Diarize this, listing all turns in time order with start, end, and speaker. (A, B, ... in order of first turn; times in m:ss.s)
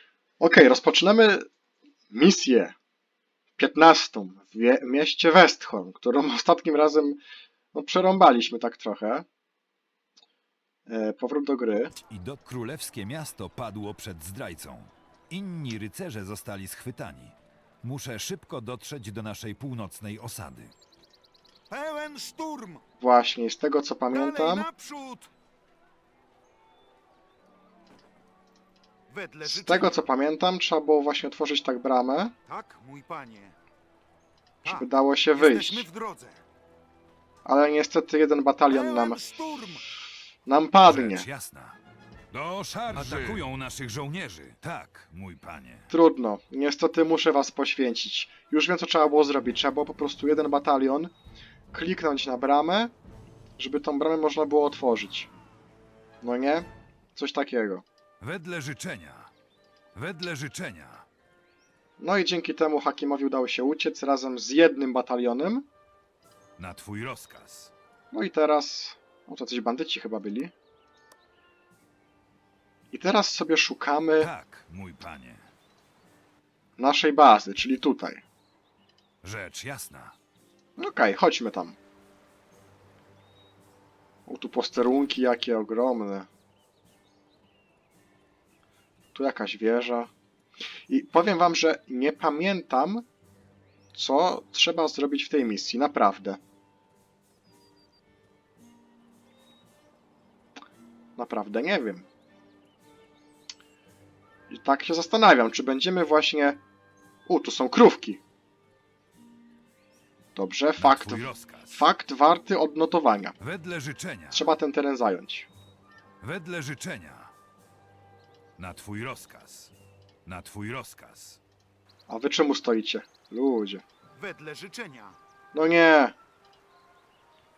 0:00.4-0:01.5 A
0:02.1-0:02.7 A
0:03.6-0:07.2 A
0:07.7-0:09.2 A
0:10.9-0:11.9 A
0:11.9-0:20.7 B
0:21.7-0:22.8 C
0:23.0-0:24.6 A
0:24.1-0:25.3 C
0:29.1-0:30.0 C
0:29.4-0:32.4 A
0:32.5-0:33.5 C
0:34.6-0:36.4 C
0:34.6-0:35.8 A
0:37.4-0:39.2 A
0:38.7-0:39.8 C
0:40.4-0:41.2 A
0:40.8-0:41.8 B
0:42.3-0:45.9 B
0:42.9-0:43.4 C
0:45.9-0:51.1 A
0:51.7-0:52.9 A
0:53.6-0:55.3 A
0:56.2-0:57.8 A
0:58.2-0:59.3 B
0:59.9-1:01.1 B
1:02.0-1:05.7 A
1:06.6-1:07.7 B
1:08.1-1:10.5 A
1:12.9-1:14.3 A
1:14.2-1:15.5 B
1:16.8-1:18.2 A
1:19.2-1:20.2 B
1:20.8-1:21.8 A
1:24.2-1:26.3 A
1:29.1-1:30.1 A
1:30.9-1:33.0 A
1:33.9-1:36.4 A
1:41.2-1:42.0 A
1:44.5-1:46.6 A
1:47.3-1:48.2 A
1:50.3-1:53.4 A
1:50.8-1:51.8 B
1:53.4-1:54.5 B
1:54.3-1:55.5 A
1:56.2-1:57.3 B
1:58.6-1:59.7 B
2:00.2-2:01.4 B
2:02.1-2:03.8 A
2:04.2-2:05.2 C
2:05.5-2:06.2 A